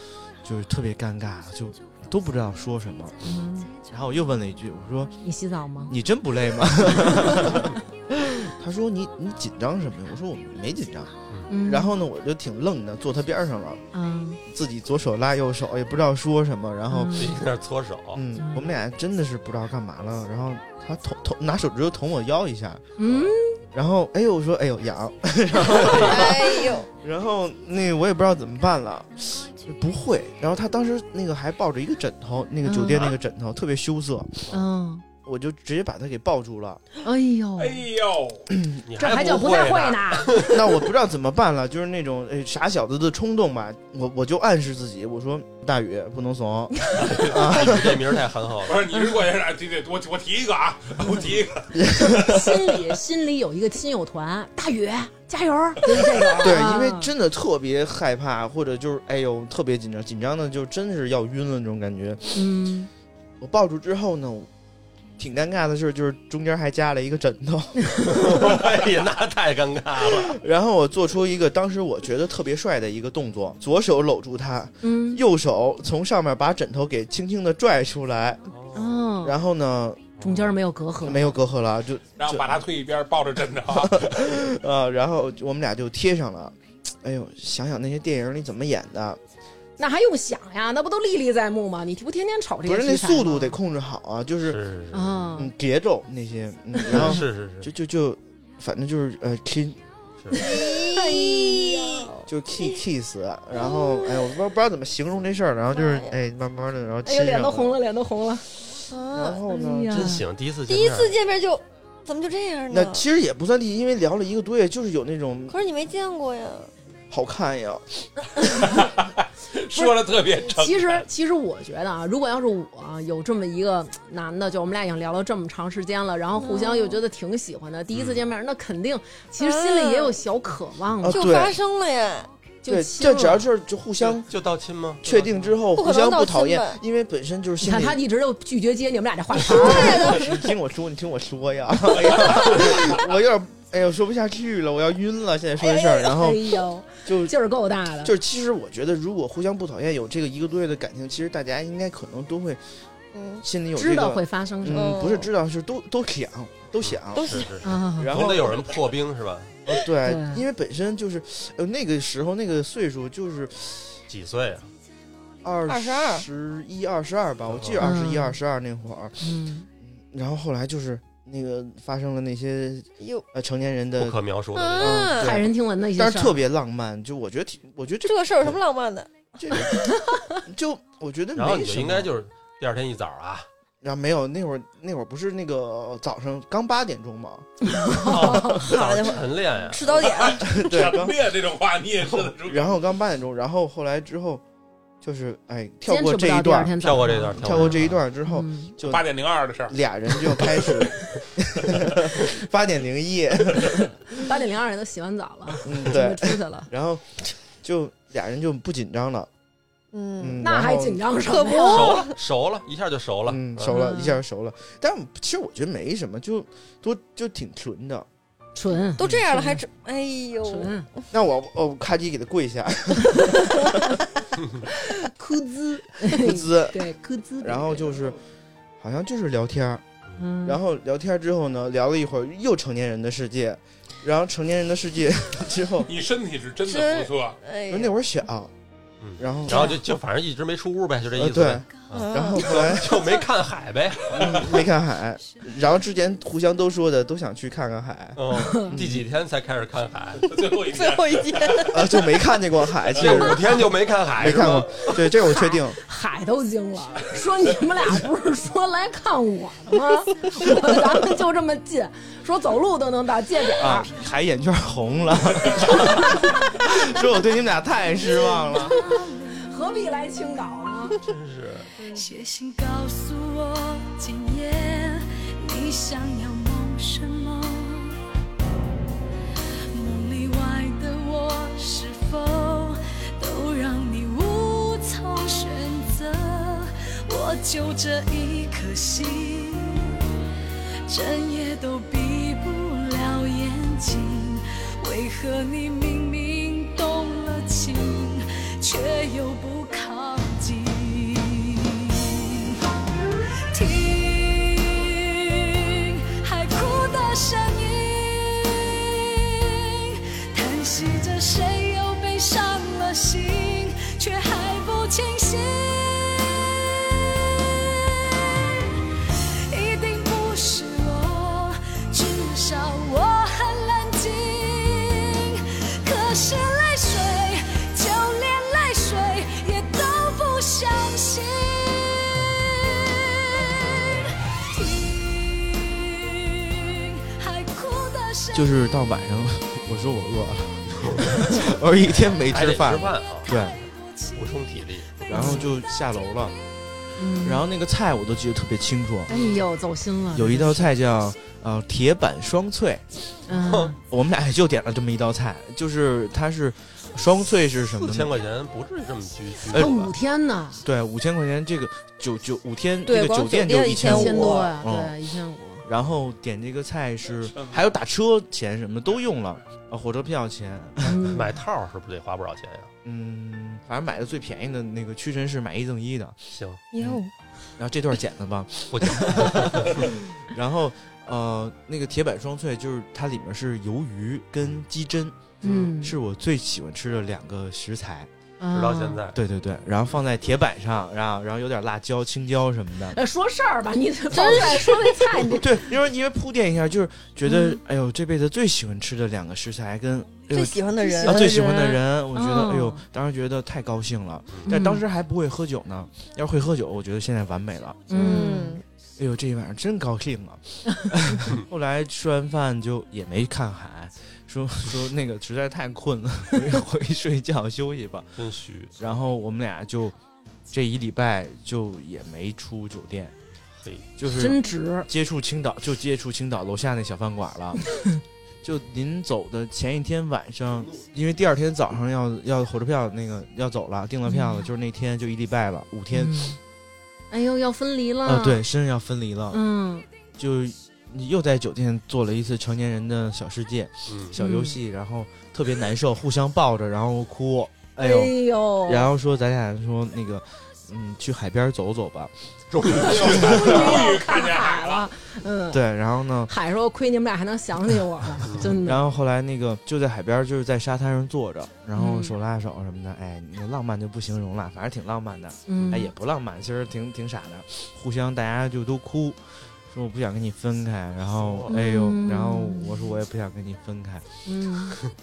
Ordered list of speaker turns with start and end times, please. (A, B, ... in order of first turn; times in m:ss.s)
0:00.4-0:05.2 A
0:03.2-0:03.7 B
0:05.2-0:06.0 B
0:05.9-0:11.1 A
0:07.1-0:07.6 B
0:11.5-0:12.0 B
0:11.6-0:13.8 A
0:13.9-0:14.4 B
0:14.5-0:17.3 A
0:16.9-0:17.4 B
0:17.1-0:18.2 C
0:18.1-0:22.9 A
0:18.3-0:18.8 B
0:23.0-0:23.6 B
0:23.1-0:23.3 C
0:23.7-0:34.5 A
0:25.9-0:26.9 D
0:32.6-0:33.1 B
0:34.5-0:35.0 B
0:35.2-0:36.8 A
0:37.0-0:37.8 B
0:37.6-0:38.5 E
0:38.5-0:38.8 A
0:38.8-0:40.6 C
0:39.0-0:40.6 B
0:40.5-0:48.1 A
0:47.1-0:48.9 C
0:48.6-0:52.2 E
0:51.8-0:52.6 A
0:51.9-0:57.1 B
0:56.4-1:02.5 A
1:02.3-1:02.9 B
1:03.4-1:04.5 A
1:05.2-1:08.6 A
1:08.1-1:10.4 C
1:10.1-1:18.4 A
1:14.8-1:15.2 B
1:18.5-1:18.9 C
1:18.7-1:19.4 B
1:19.2-1:20.2 A
1:20.2-1:20.5 C
1:20.2-1:21.4 B
1:21.0-1:22.6 A
1:22.2-1:24.3 E
1:23.7-1:29.2 A
1:29.8-1:33.6 B
1:32.6-1:34.6 A
1:34.4-1:35.2 C
1:34.9-1:35.5 B
1:35.4-1:39.8 A
1:36.9-1:37.7 C
1:36.9-1:37.2 B
1:40.4-1:42.2 D
1:40.4-1:42.1 B
1:42.3-1:47.8 A
1:43.5-1:44.3 D
1:45.7-1:46.2 D
1:47.0-1:48.4 B
1:48.9-1:49.4 D
1:49.1-1:50.2 A
1:49.5-1:50.2 B
1:49.9-1:51.2 C
1:50.7-1:53.0 D
1:52.7-1:55.6 A
1:55.5-1:56.7 D
1:57.1-1:58.2 A
1:58.6-2:01.0 E
1:59.7-2:11.3 B
2:06.3-2:07.0 D
2:07.9-2:08.2 C
2:09.4-2:10.2 D
2:11.0-2:11.6 A
2:11.1-2:12.3 D
2:12.6-2:13.5 B
2:12.7-2:14.3 A
2:14.0-2:15.5 C
2:15.0-2:18.0 A
2:15.7-2:16.8 D
2:17.6-2:20.2 B
2:19.4-2:20.4 D
2:19.6-2:26.5 A
2:22.4-2:22.6 B
2:25.6-2:25.9 D
2:25.8-2:28.2 B
2:27.0-2:27.3 A
2:28.0-2:32.6 A
2:33.1-2:33.4 D
2:33.4-2:38.7 A
2:33.7-2:35.0 B
2:34.7-2:35.3 D
2:36.8-2:39.5 C
2:37.1-2:37.5 D
2:37.6-2:38.2 B
2:39.6-2:44.0 A
2:40.0-2:40.4 B
2:44.1-2:44.7 C
2:45.4-2:54.2 A
2:45.6-2:46.2 D
2:47.5-2:47.8 C
2:47.8-2:48.4 B
2:49.2-2:49.7 B
2:53.0-2:53.2 D
2:54.0-2:55.0 C
2:54.5-2:55.4 D
2:54.8-2:58.6 A
2:55.0-2:56.4 B
2:58.0-2:59.1 D
2:59.4-3:02.1 A
3:01.3-3:03.5 C
3:03.8-3:07.5 A
3:07.7-3:08.7 B
3:08.0-3:10.2 C
3:08.5-3:10.5 D
3:09.9-3:12.8 E
3:10.4-3:11.2 A
3:12.4-3:14.4 A
3:15.0-3:16.8 A
3:15.8-3:18.7 B
3:16.8-3:18.0 C
3:17.4-3:19.2 A
3:18.8-3:20.9 E
3:19.7-3:24.2 A
3:24.1-3:26.7 B
3:25.6-3:29.3 A
3:29.9-3:30.4 D
3:30.2-3:31.0 A
3:30.4-3:32.0 B
3:31.2-3:32.1 D
3:31.6-3:33.8 C
3:33.2-3:38.1 A
3:33.7-3:34.2 B
3:38.5-3:39.6 B
3:39.0-3:41.0 D
3:40.4-3:40.9 B
3:41.1-3:44.0 A
3:43.0-3:43.9 B
3:44.7-3:48.1 B
3:46.0-3:46.9 A
3:47.4-3:48.2 A
3:48.8-3:49.8 A
3:50.2-3:50.6 B
3:50.4-3:55.9 A
3:55.8-3:57.4 E
3:56.6-3:58.0 D
3:57.7-3:58.5 A
3:59.0-4:04.7 C
3:59.2-3:59.8 A
4:01.2-4:03.2 A
4:01.9-4:02.8 D
4:04.1-4:04.4 E
4:04.1-4:09.0 A
4:08.2-4:10.3 C
4:08.3-4:08.8 B
4:10.2-4:11.9 E
4:10.6-4:11.9 D
4:11.7-4:15.8 A
4:13.0-4:15.0 C
4:13.0-4:13.3 E
4:15.1-4:23.9 B
4:23.6-4:28.8 A
4:25.7-4:26.3 B
4:28.2-4:31.0 B
4:31.0-4:31.7 C
4:31.8-4:38.0 F
4:39.7-4:50.0 F
4:50.9-5:02.6 F
5:03.5-5:18.2 F
5:19.5-5:38.7 F
5:38.3-5:43.6 A
5:42.2-5:43.4 C
5:44.1-5:45.3 C
5:45.1-5:46.3 A
5:45.1-5:45.5 B
5:47.0-5:47.5 B
5:47.2-5:49.1 A
5:49.1-5:50.8 B
5:49.1-5:49.4 C
5:50.1-5:53.2 A
5:53.3-5:53.8 B
5:53.4-5:53.7 C
5:53.9-5:58.2 A
5:57.7-5:59.8 C
5:59.5-6:00.6 B
5:59.5-5:59.9 A
6:00.6-6:05.0 A
6:02.8-6:04.5 D
6:03.8-6:05.6 B
6:05.6-6:11.2 A
6:10.8-6:11.3 B
6:11.1-6:12.7 C
6:12.8-6:16.2 A
6:16.3-6:16.6 C
6:16.7-6:17.1 B
6:16.8-6:17.0 A
6:17.6-6:28.1 A
6:18.7-6:19.9 C
6:25.4-6:25.7 C
6:25.4-6:26.0 B
6:28.4-6:29.0 B
6:28.5-6:29.2 C
6:29.1-6:33.0 A
6:32.9-6:35.7 B
6:34.1-6:35.4 D
6:35.4-6:47.8 A
6:37.2-6:37.6 B
6:40.3-6:41.4 D
6:40.8-6:42.8 B
6:44.5-6:44.8 B
6:47.9-6:48.6 B
6:47.9-6:48.6 D
6:49.0-6:58.1 A
6:58.2-6:58.7 C
6:58.8-7:00.0 A
7:00.5-7:03.1 A
7:03.6-7:03.9 C
7:04.0-7:07.7 A
7:04.0-7:04.9 B
7:08.4-7:16.3 A
7:14.0-7:14.5 B
7:15.9-7:16.4 B
7:17.1-7:18.4 B
7:18.0-7:19.4 A
7:19.3-7:19.9 B
7:20.2-7:32.1 A
7:23.9-7:24.1 C
7:24.2-7:24.6 B
7:27.8-7:28.9 B
7:32.5-7:33.4 C
7:32.8-7:34.9 E
7:32.8-7:35.6 B
7:32.9-7:33.5 A
7:35.5-7:36.3 A
7:36.2-7:38.8 B
7:38.2-7:38.5 C
7:38.4-7:54.0 A
7:41.7-7:42.2 B
7:45.5-7:45.9 B
7:51.2-7:51.5 C
7:51.5-7:53.0 B
7:54.2-7:54.8 B